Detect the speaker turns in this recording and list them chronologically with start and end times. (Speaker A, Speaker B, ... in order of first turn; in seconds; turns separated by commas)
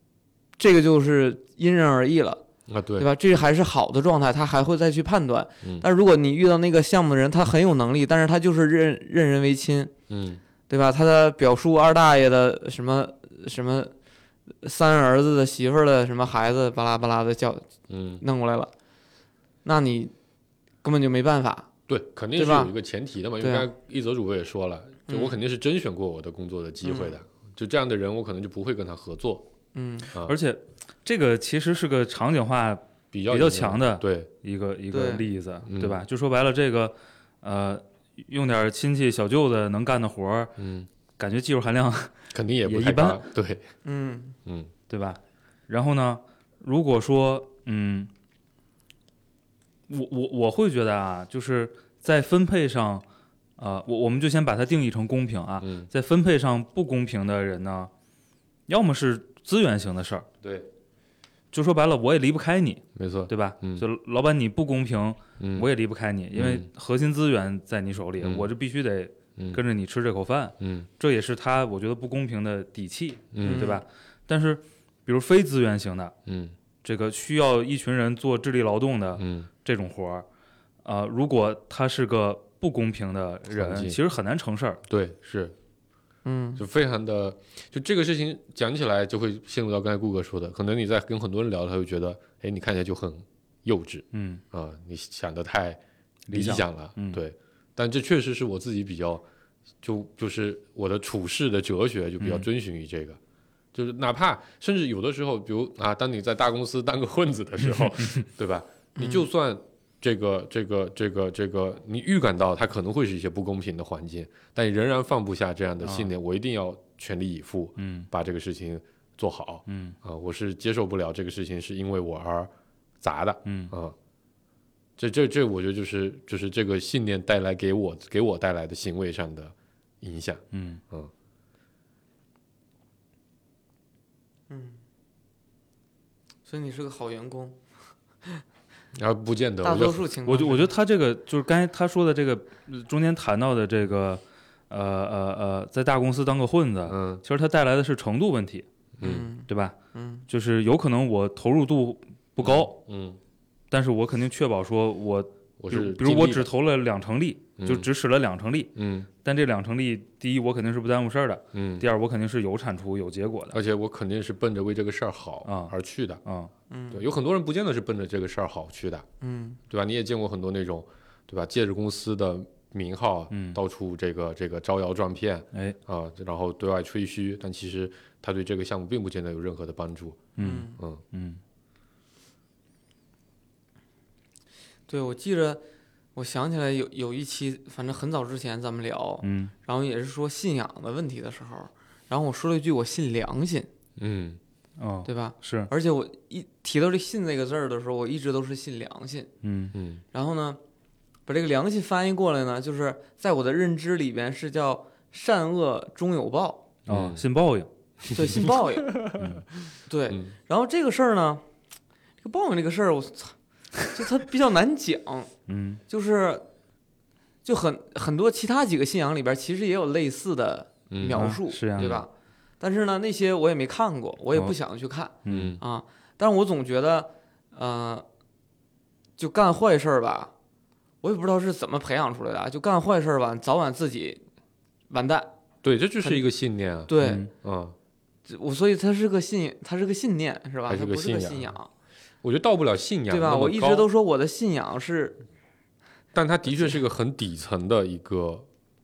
Speaker A: 0.6-2.4, Speaker B: 2.7-3.1, Speaker A: 3.0-9.9, Speaker B: 10.1-10.4, Speaker A: 10.7-13.9, Speaker A: 14.6-17.7, Speaker B: 17.9-18.2, Speaker A: 18.2-18.7, Speaker A: 19.6-20.1, Speaker A: 20.8-21.7, Speaker B: 21.9-29.4, Speaker A: 22.4-22.7, Speaker A: 23.4-23.6, Speaker A: 25.1-25.4, Speaker A: 26.8-27.1, Speaker A: 29.7-30.1, Speaker C: 30.2-40.5, Speaker B: 33.1-34.3, Speaker A: 34.9-35.2, Speaker B: 35.6-36.0, Speaker B: 40.6-40.9, Speaker C: 41.2-43.2, Speaker B: 42.3-43.6, Speaker A: 43.8-44.4, Speaker B: 44.5-44.7, Speaker C: 44.9-48.1, Speaker C: 49.9-53.0, Speaker C: 53.6-57.9, Speaker B: 55.6-55.9, Speaker C: 58.7-60.3, Speaker B: 60.4-60.7, Speaker C: 61.5-76.1, Speaker B: 63.0-63.8, Speaker B: 65.4-65.7, Speaker B: 66.3-66.7, Speaker B: 68.2-68.5, Speaker B: 70.6-70.9, Speaker B: 73.3-73.7, Speaker A: 73.4-73.8, Speaker B: 76.2-76.5, Speaker C: 76.8-80.2, Speaker B: 79.2-79.5, Speaker C: 80.8-84.8, Speaker B: 83.5-84.0, Speaker B: 84.9-85.5, Speaker A: 86.2-86.6, Speaker B: 86.6-95.8, Speaker C: 94.1-94.4, Speaker C: 96.3-97.2, Speaker B: 96.3-99.2, Speaker B: 99.8-103.2, Speaker C: 102.2-102.5, Speaker B: 103.7-123.9, Speaker A: 109.0-109.3, Speaker C: 115.8-116.1, Speaker C: 117.8-118.1, Speaker C: 119.7-120.0, Speaker C: 123.4-123.7, Speaker B: 125.0-131.1, Speaker C: 130.5-130.8, Speaker A: 134.5-134.8, Speaker A: 136.4-137.6, Speaker B: 138.9-140.1, Speaker A: 139.6-140.7, Speaker C: 140.2-148.6, Speaker B: 146.9-147.2, Speaker B: 149.0-149.3, Speaker A: 149.0-150.2, Speaker C: 149.5-149.8, Speaker C: 150.3-152.7, Speaker B: 152.4-153.2, Speaker C: 153.7-163.6, Speaker B: 155.6-156.5, Speaker B: 157.6-157.9, Speaker B: 158.8-159.1, Speaker B: 161.5-161.8, Speaker B: 163.5-166.2, Speaker C: 165.4-165.7, Speaker C: 166.2-166.5, Speaker A: 166.7-167.0, Speaker B: 166.9-169.1, Speaker A: 169.2-169.6, Speaker B: 169.7-181.0, Speaker C: 173.3-173.6, Speaker C: 180.4-181.4, Speaker A: 180.4-180.8, Speaker A: 184.9-185.6, Speaker A: 186.2-193.7, Speaker C: 189.2-189.5, Speaker B: 194.0-194.4, Speaker C: 194.8-195.7, Speaker A: 195.0-199.3, Speaker C: 199.4-199.7, Speaker B: 199.7-200.0, Speaker A: 200.1-200.6, Speaker A: 201.3-206.7, Speaker B: 206.9-207.2, Speaker C: 206.9-207.7, Speaker B: 208.0-209.4, Speaker A: 208.1-209.0, Speaker C: 209.2-209.4, Speaker A: 209.9-211.4, Speaker A: 212.2-213.3, Speaker A: 213.9-215.3, Speaker C: 215.5-215.8, Speaker A: 215.9-216.4, Speaker A: 217.4-228.0, Speaker B: 220.9-222.0, Speaker C: 221.1-222.0, Speaker C: 225.2-225.6, Speaker B: 225.3-225.6, Speaker A: 229.2-230.3, Speaker A: 231.0-234.2, Speaker A: 234.9-235.3, Speaker B: 235.6-237.8, Speaker A: 236.9-237.3, Speaker C: 237.0-237.3, Speaker A: 238.3-241.7, Speaker B: 240.7-241.5, Speaker B: 242.2-243.9, Speaker A: 243.1-245.2, Speaker B: 246.1-248.5